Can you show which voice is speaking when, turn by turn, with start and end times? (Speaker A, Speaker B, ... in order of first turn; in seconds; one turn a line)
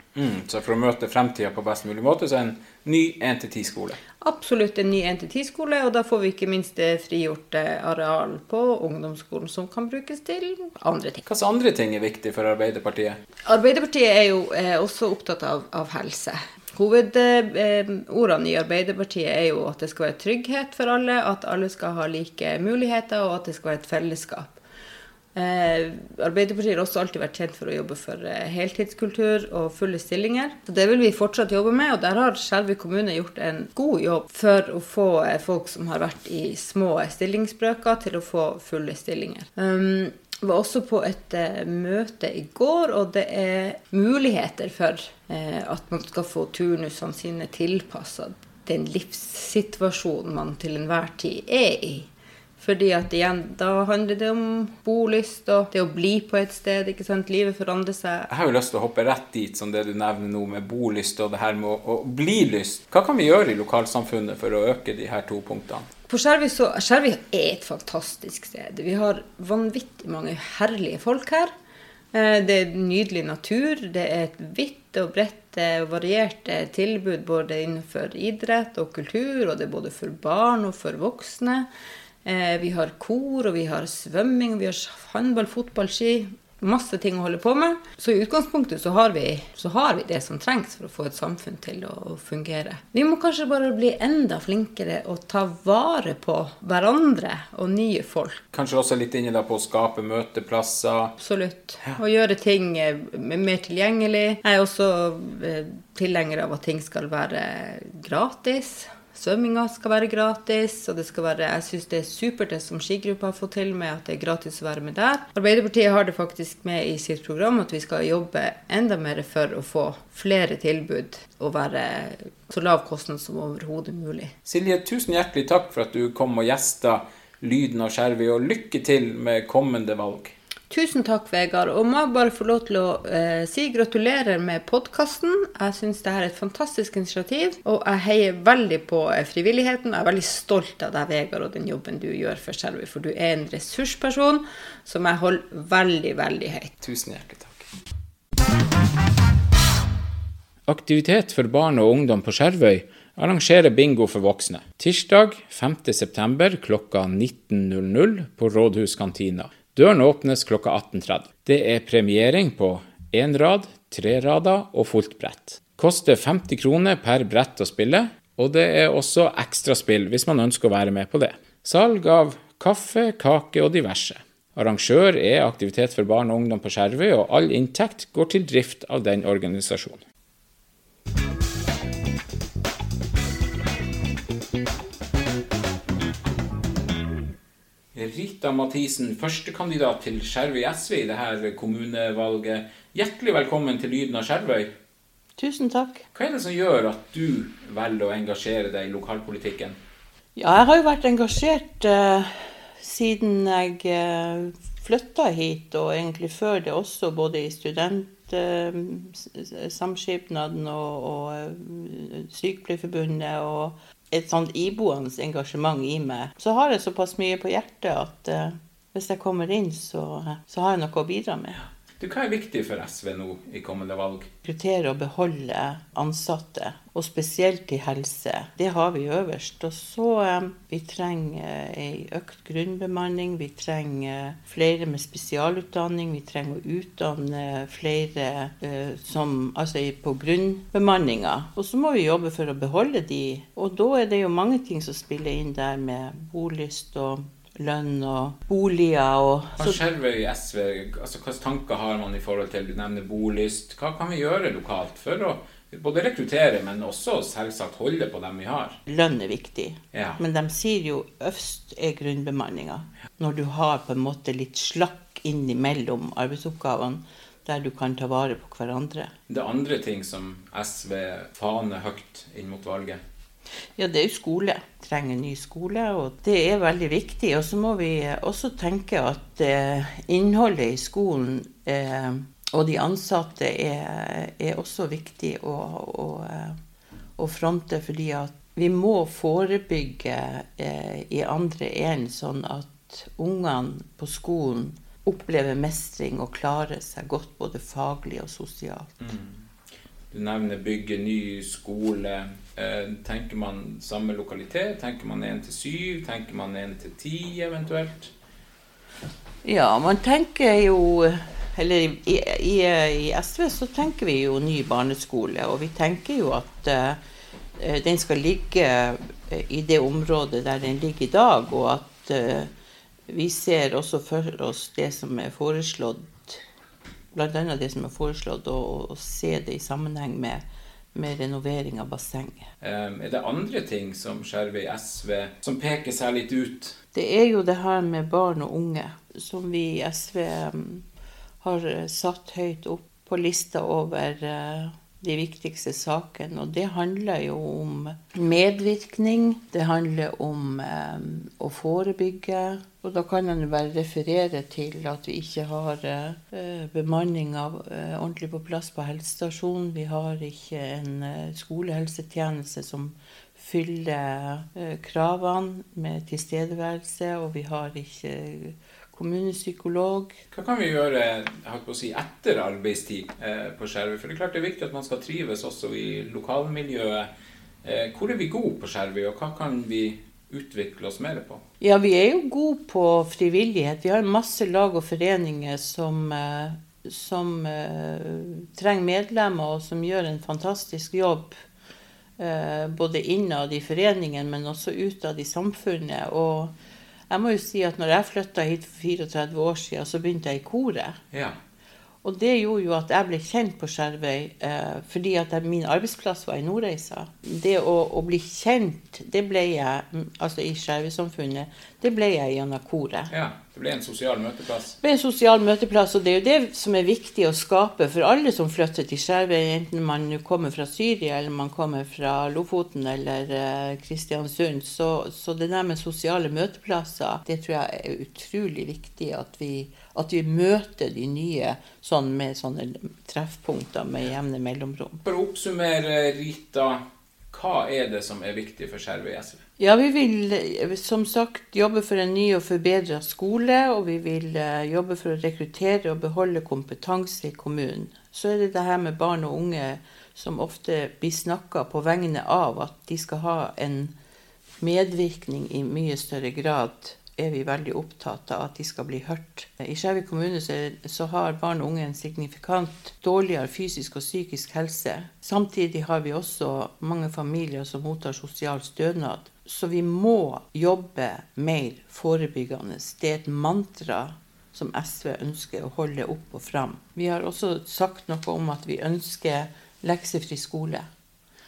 Speaker A: 0.1-4.0
Speaker B: 4.2-11.2
Speaker A: 11.3-13.2
Speaker B: 13.4-24.6
Speaker B: 25.4-52.1
Speaker B: 52.6-58.3
Speaker A: 58.3-65.9
Speaker B: 66.1-71.5
Speaker B: 72.1-81.7
Speaker B: 82.2-98.4
Speaker A: 98.5-101.1
Speaker B: 101.2-124.3
Speaker A: 124.5-130.3
Speaker B: 130.7-146.7
Speaker A: 146.8-147.7
Speaker A: 150.7-180.0
Speaker A: 187.9-194.7
Speaker C: 195.4-196.1
Speaker A: 196.2-199.8
Speaker C: 200.4-221.6
Speaker A: 222.0-224.3
Speaker C: 224.4-249.8
Speaker A: 249.6-258.8
Speaker C: 258.9-269.1
Speaker A: 259.9-260.2
Speaker A: 269.3-273.0
Speaker C: 273.8-286.6
Speaker C: 287.2-299.0
Speaker A: 299.0-299.4
Speaker A: 300.1-308.1
Speaker C: 309.4-317.0
Speaker C: 317.6-322.5
Speaker C: 323.1-326.4
Speaker C: 327.1-330.4
Speaker C: 330.9-332.5
Speaker A: 332.6-336.8
Speaker C: 336.9-340.9
Speaker C: 341.4-370.2
Speaker A: 370.3-377.1
Speaker A: 377.6-381.4
Speaker C: 381.6-391.4
Speaker C: 392.2-396.5
Speaker C: 397.1-401.0
Speaker A: 401.1-401.4
Speaker C: 402.0-413.1
Speaker A: 413.1-414.8
Speaker C: 414.8-435.0
Speaker A: 435.1-439.4
Speaker C: 439.6-453.9
Speaker C: 454.6-480.9